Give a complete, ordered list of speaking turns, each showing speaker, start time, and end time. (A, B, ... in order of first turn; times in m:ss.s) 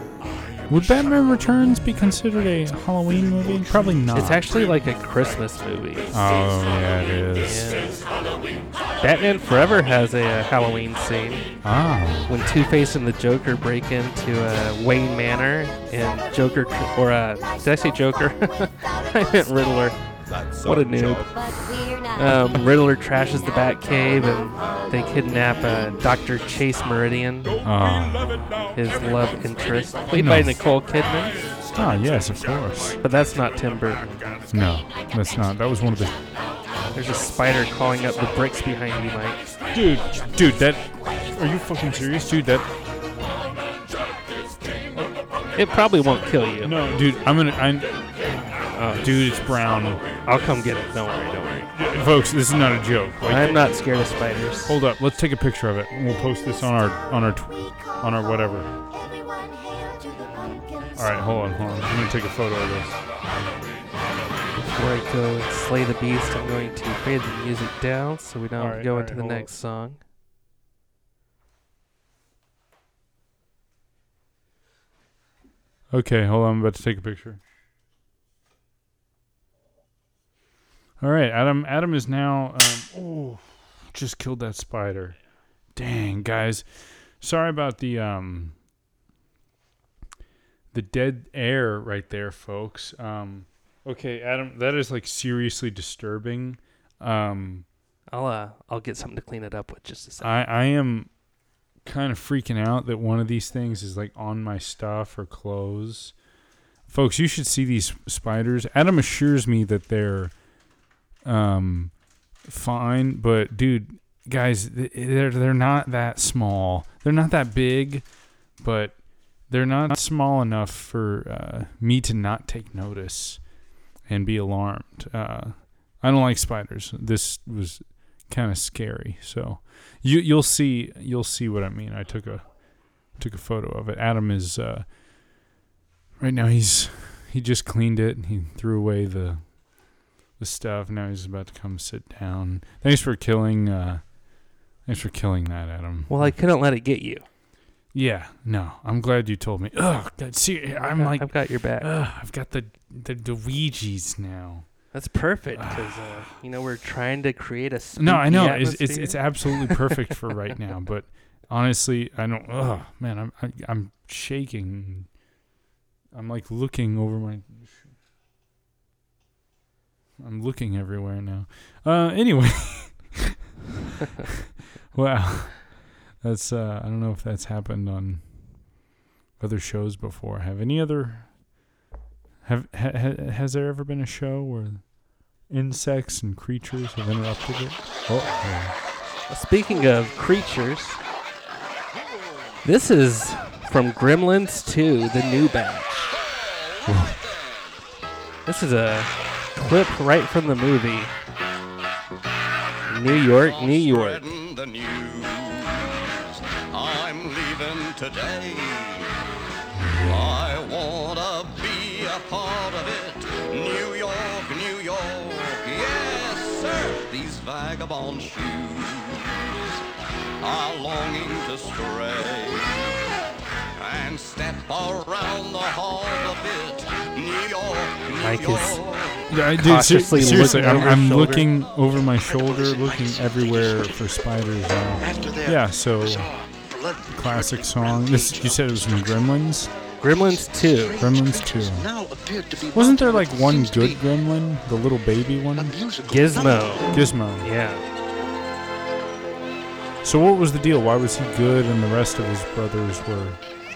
0:00.7-0:04.4 A
0:04.1-0:06.1 B
0:06.1-0:07.8 A
0:07.4-0:08.0 B
0:09.0-0:11.5 B
0:11.6-0:12.3 A
0:12.2-0:27.6 B
0:21.5-0:22.1 C
0:27.6-0:28.5 A
0:28.6-0:31.5 B
0:30.1-0:30.6 A
0:31.7-0:33.0 A
0:33.0-0:34.2 B
0:34.5-0:36.2 A
0:36.9-0:39.4 B
0:39.7-0:42.7 A
0:45.5-0:46.8 B
0:46.6-0:48.1 A
0:48.7-0:49.1 B
0:48.9-0:50.0 A
0:50.2-0:51.7 B
0:51.7-0:53.7 A
0:53.2-0:54.8 B
0:54.6-0:58.7 A
0:59.0-1:01.4 C
1:01.0-1:03.0 A
1:04.6-1:10.0 B
1:08.6-1:09.5 A
1:15.9-1:17.4 A
1:21.0-1:28.6 A
1:30.7-1:37.6 A
1:38.1-1:40.3 B
1:40.2-1:46.2 A
1:46.9-2:15.5 A
2:16.2-2:26.4 A
2:26.1-2:27.2 B
2:27.9-2:36.3 A
2:30.8-2:31.9 B
2:34.9-2:39.9 B
2:38.0-2:45.2 A
2:46.1-2:48.0 A
2:50.2-2:53.4 A
2:54.9-2:58.8 A
2:59.4-3:01.6 A
3:02.4-3:08.8 A
3:09.3-3:11.0 B
3:12.6-3:16.1 B
3:16.2-3:17.7 D
3:16.8-3:17.2 A
3:18.4-3:21.1 B
3:22.9-3:24.3 B
3:23.1-3:29.2 D
3:29.7-3:30.5 A
3:30.0-3:39.6 D
3:40.4-3:43.0 D
3:43.8-3:49.3 D
3:48.2-3:48.8 B
3:49.3-3:56.5 A
3:49.6-3:51.5 B
3:55.0-3:55.5 E
3:57.1-3:59.7 A
4:00.0-4:01.0 B
4:01.0-4:02.0 A
4:01.6-4:03.8 E
4:02.7-4:05.8 A
4:05.7-4:06.7 E
4:06.0-4:07.8 B
4:06.9-4:07.5 A
4:10.0-4:13.5 A